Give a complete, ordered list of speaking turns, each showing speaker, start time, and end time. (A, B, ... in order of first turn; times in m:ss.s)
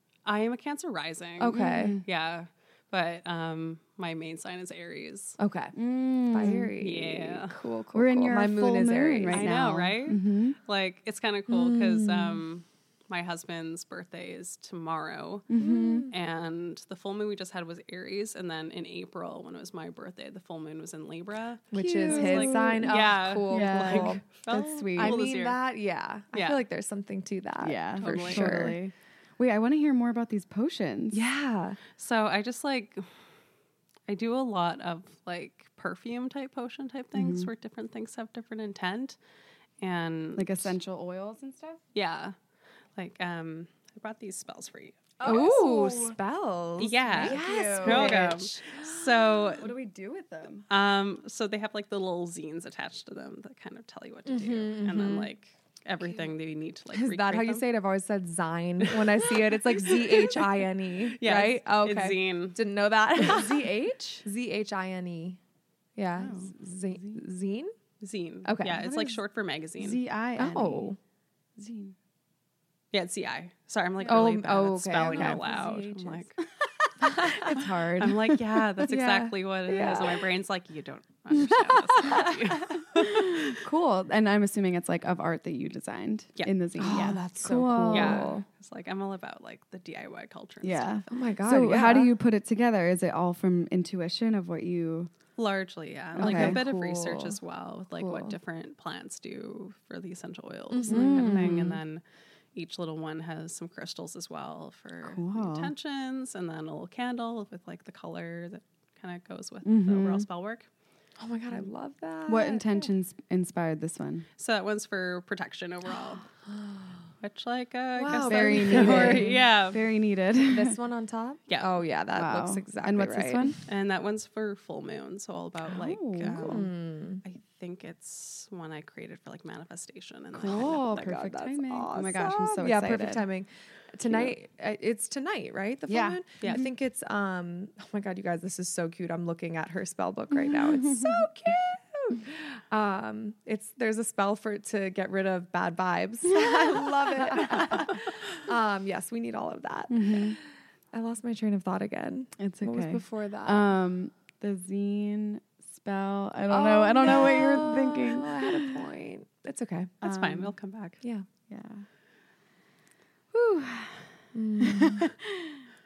0:00.2-0:05.4 A
0:01.4-0:02.0 B
0:01.5-0:02.0 C
0:05.4-0:09.6 B
0:05.7-0:06.7 C
0:06.8-0:07.5 A
0:07.9-0:10.6 C
0:09.3-0:15.5 A
0:11.5-0:12.4 B
0:15.5-0:16.1 C
0:15.6-0:16.1 B
0:16.1-0:25.6 A
0:21.7-0:24.2 B
0:21.7-0:25.2 C
0:25.0-0:28.8 B
0:26.3-0:26.6 A
0:27.6-0:31.2 C
0:28.0-0:28.7 A
0:31.1-0:31.8 B
0:32.0-0:33.0 A
0:34.1-0:39.2 A
0:37.1-0:37.5 C
0:39.8-0:40.8 A
0:40.4-0:41.8 C
0:41.9-0:42.4 A
0:43.0-0:45.6 A
0:45.2-0:46.2 C
0:45.2-0:48.6 B
0:46.8-0:49.7 A
0:47.2-0:48.4 C
0:49.4-0:50.6 C
0:50.7-0:57.6 A
0:54.3-0:55.3 B
0:56.9-1:05.4 B
0:58.8-1:02.6 A
1:03.2-1:04.2 C
1:06.0-1:07.7 B
1:06.2-1:07.2 C
1:08.0-1:10.0 A
1:08.4-1:09.1 B
1:09.8-1:10.9 C
1:10.4-1:11.0 B
1:11.6-1:12.0 C
1:12.9-1:16.4 A
1:14.0-1:14.2 C
1:14.0-1:15.6 B
1:15.0-1:16.3 C
1:17.0-1:20.2 B
1:17.4-1:23.4 A
1:21.3-1:22.2 C
1:22.9-1:28.3 C
1:26.4-1:27.2 A
1:26.8-1:28.4 B
1:27.9-1:31.2 A
1:30.6-1:35.1 C
1:31.1-1:32.1 B
1:35.4-1:42.0 A
1:36.2-1:36.6 C
1:36.2-1:37.4 B
1:37.9-1:38.4 B
1:40.7-1:41.3 B
1:40.9-1:41.8 C
1:42.5-1:50.7 A
1:45.0-1:45.7 C
1:49.6-1:50.3 C
1:51.2-1:52.6 B
1:52.3-1:54.3 C
1:54.4-1:56.2 A
1:56.5-1:56.9 B
1:57.2-1:59.8 A
1:58.0-1:59.4 B
1:58.2-2:00.8 C
2:00.4-2:03.6 B
2:02.1-2:03.6 C
2:03.6-2:06.7 A
2:05.7-2:06.6 C
2:06.3-2:07.2 B
2:07.2-2:11.0 A
2:10.3-2:13.2 C
2:10.8-2:30.4 B
2:14.1-2:14.3 C
2:15.9-2:16.6 C
2:20.3-2:21.3 C
2:27.5-2:27.8 C
2:29.9-2:30.4 C
2:30.9-2:33.6 B
2:32.4-2:38.8 C
2:36.5-2:39.9 B
2:40.0-2:41.0 A
2:40.0-2:40.5 C
2:41.5-2:41.8 C
2:43.3-2:45.6 C
2:44.3-2:45.1 B